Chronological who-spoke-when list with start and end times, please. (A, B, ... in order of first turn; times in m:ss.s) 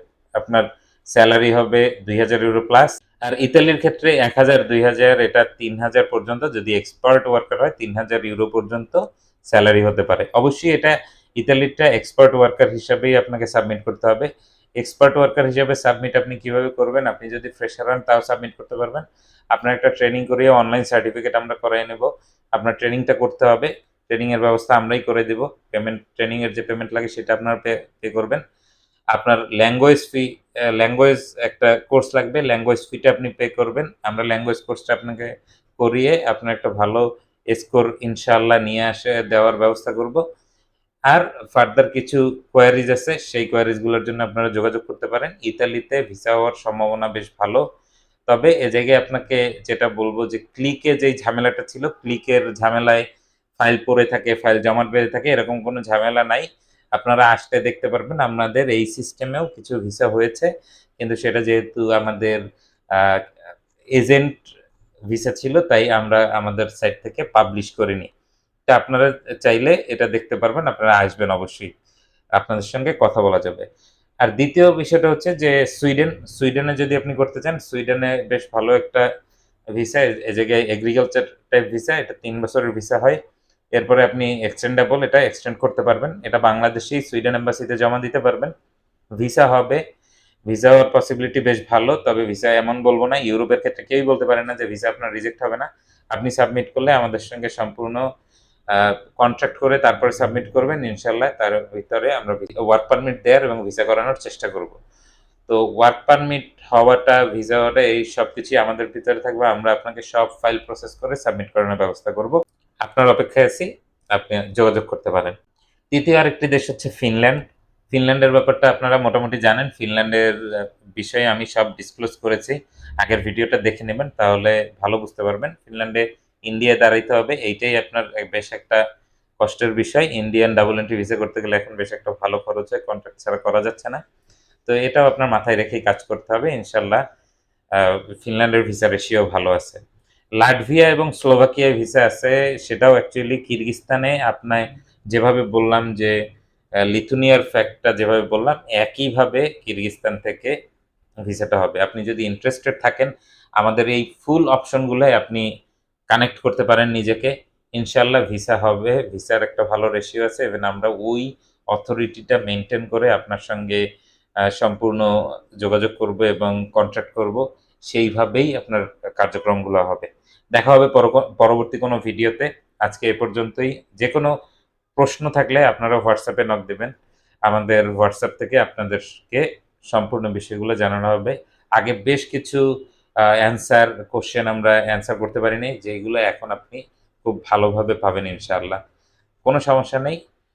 0:00.4-0:14.3 A
0:14.8-0:28.4 A
0:29.1-0:40.2 A
0:41.1-0:47.6 A
0:48.3-0:53.0 A
0:53.6-1:02.4 A
1:02.9-1:03.2 A
1:04.0-1:04.3 A
1:05.1-1:08.1 A
1:08.7-1:11.8 A
1:12.4-1:13.6 A
1:14.2-1:19.0 A
1:19.7-1:23.2 A
1:23.7-1:28.5 A
1:29.2-1:29.8 A
1:30.5-1:38.0 A
1:38.7-1:44.8 A
1:45.5-1:55.4 A
1:55.9-2:08.8 A
2:09.4-2:14.0 A
2:14.6-2:17.0 A
2:17.8-2:19.8 A
2:20.4-2:26.1 A
2:26.9-2:30.5 A
2:31.2-2:35.4 A
2:36.1-2:43.8 A
2:44.5-2:45.0 A
2:45.6-2:54.3 A
2:55.0-2:56.9 A
2:57.5-3:02.6 A
3:03.4-3:08.8 A
3:09.4-3:10.2 A